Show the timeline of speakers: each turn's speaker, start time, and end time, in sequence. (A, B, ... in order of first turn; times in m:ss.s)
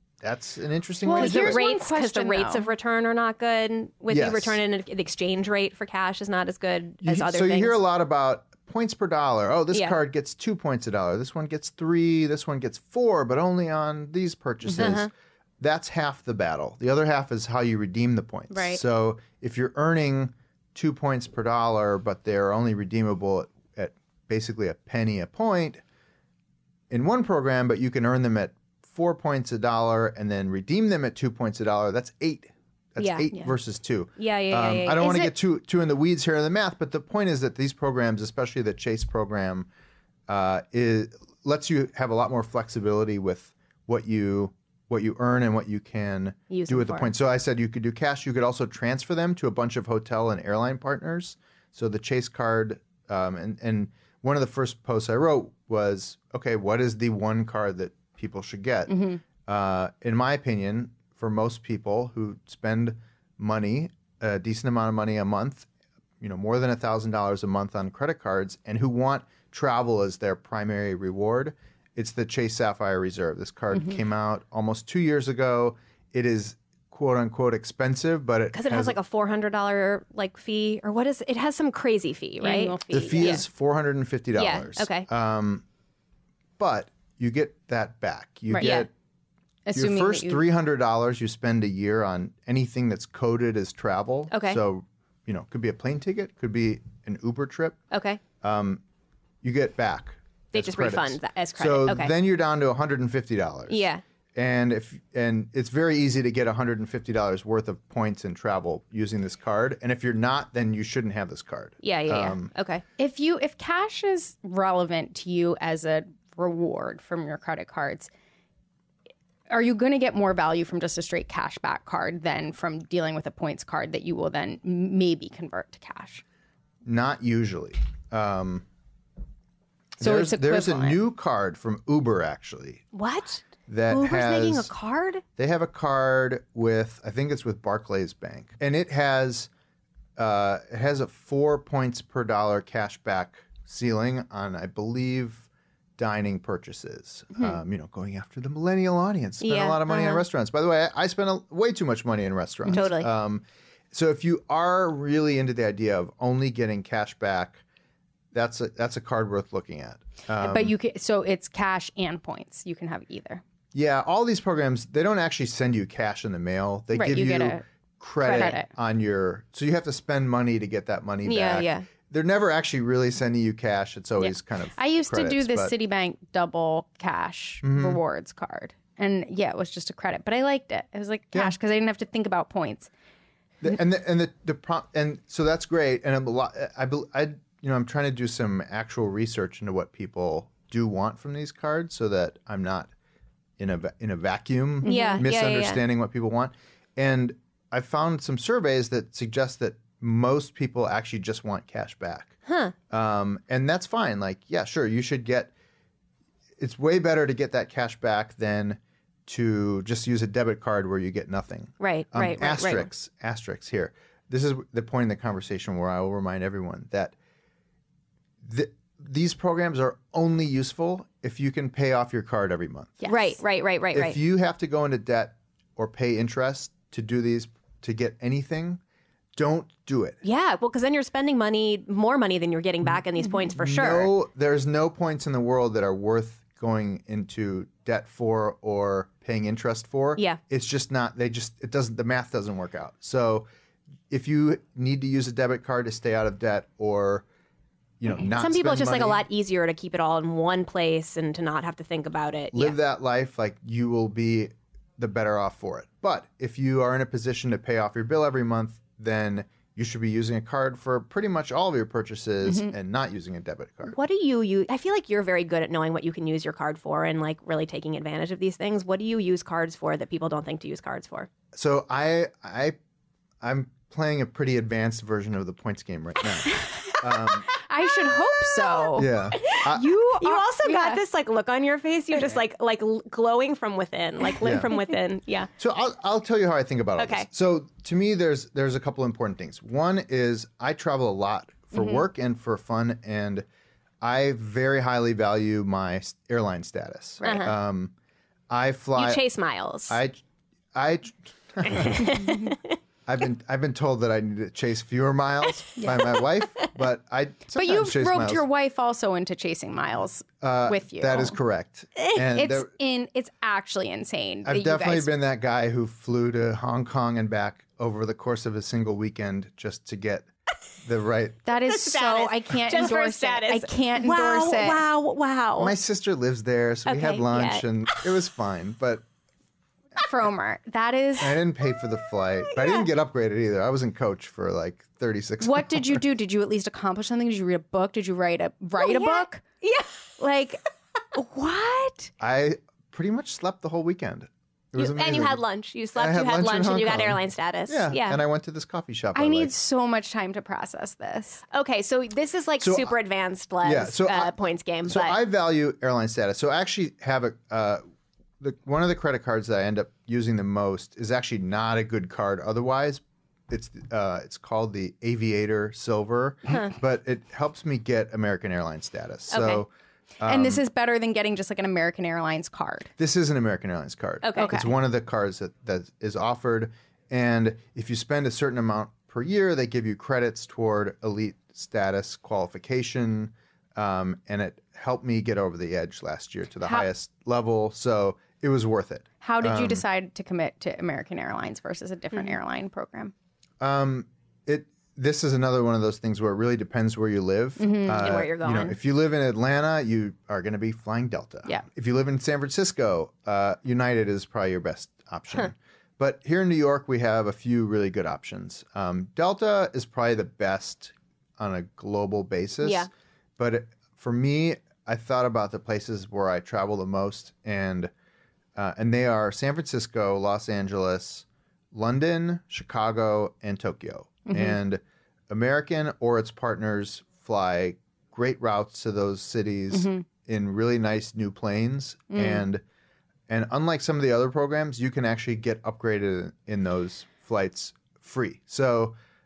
0:00.2-0:01.6 A
0:01.0-0:02.7 B
0:01.1-0:07.8 C
0:04.1-0:04.6 A
0:07.0-0:25.8 A
0:14.6-0:15.1 C
0:18.5-0:18.8 B
0:26.9-0:39.7 A
0:33.0-0:33.3 C
0:34.2-0:35.3 C
0:35.0-0:35.3 B
0:40.3-1:05.7 A
0:46.5-0:47.1 C
0:58.9-0:59.2 B
1:06.2-1:19.0 A
1:18.5-1:23.4 C
1:22.4-1:23.4 B
1:22.9-1:25.6 A
1:24.4-1:25.1 C
1:26.6-1:28.9 A
1:28.5-1:28.8 B
1:28.6-1:28.9 C
1:29.6-1:30.4 B
1:29.7-1:37.8 A
1:34.3-1:34.6 C
1:37.9-1:38.2 C
1:38.4-1:38.8 A
1:39.4-1:52.5 A
1:40.5-1:42.1 C
1:43.7-1:44.0 C
1:51.8-1:52.8 C
1:53.0-1:58.1 B
1:59.5-2:06.2 B
2:06.8-2:08.6 A
2:10.0-2:12.8 A
2:10.0-2:11.0 B
2:12.9-2:15.2 C
2:13.7-2:14.7 A
2:15.4-2:19.5 A
2:20.2-2:37.6 A
2:29.4-2:30.2 C
2:32.7-2:33.1 C
2:38.3-2:40.7 A
2:40.4-2:43.4 B
2:43.7-2:55.7 A
2:46.9-2:47.6 B
2:48.2-2:48.7 B
2:48.3-2:48.5 C
2:51.2-2:51.8 C
2:54.2-3:02.9 B
2:57.6-2:58.0 A
3:03.6-3:12.9 A
3:13.6-3:22.4 A
3:14.8-3:15.2 B
3:14.8-3:15.8 C
3:22.5-3:22.7 C
3:22.9-3:25.5 A
3:26.6-3:37.1 A
3:31.8-3:32.9 C
3:38.4-3:43.0 A
3:43.0-3:43.4 B
3:43.1-3:44.2 C
3:43.9-3:48.8 A
3:49.3-3:50.2 A
3:50.2-3:54.1 C
3:53.6-4:03.5 A
4:04.1-4:07.2 A
4:08.0-4:09.2 A
4:08.2-4:12.8 C
4:12.5-4:24.0 A
4:23.9-4:31.3 C
4:31.5-4:32.8 A
4:33.4-4:37.5 A
4:37.5-4:41.0 B
4:38.5-4:45.5 C
4:39.0-4:39.9 A
4:44.4-4:44.7 A
4:45.6-4:53.4 A
4:47.0-4:47.3 C
4:54.0-4:57.9 A
4:57.2-4:57.5 C
4:58.5-4:59.2 A
4:59.0-5:00.0 C
4:59.9-5:00.2 A
5:00.7-5:02.4 A
5:01.8-5:02.6 C
5:03.0-5:08.4 A
5:07.5-5:11.4 B
5:10.4-5:12.7 A
5:12.2-5:15.1 B
5:14.4-5:20.3 A
5:20.8-5:21.5 A
5:21.4-5:24.8 B
5:21.6-5:25.7 C
5:25.6-5:29.0 A
5:26.8-5:28.1 C
5:30.0-5:31.4 B
5:31.2-5:36.0 A
5:35.4-5:39.4 B
5:38.8-5:40.0 C
5:40.2-5:40.6 B
5:41.1-5:42.1 B
5:42.2-5:45.4 A
5:44.8-5:48.2 C
5:45.9-5:49.5 A
5:49.1-5:51.4 B
5:51.5-5:55.2 C
5:52.6-5:52.9 A
5:53.6-5:54.3 A
5:54.8-5:57.8 A
5:58.4-6:10.6 A
6:09.3-6:09.6 C
6:10.2-6:12.9 B
6:13.0-6:29.8 A
6:14.2-6:14.5 C
6:14.4-6:14.7 B
6:26.6-6:26.9 B
6:29.2-6:33.1 B
6:33.6-6:57.9 A
6:37.6-6:38.1 B
6:38.0-6:38.8 C
6:52.6-6:52.9 C
6:58.6-7:12.6 A
7:04.3-7:04.6 B
7:09.7-7:10.0 B
7:12.1-7:12.5 B
7:13.3-7:19.0 A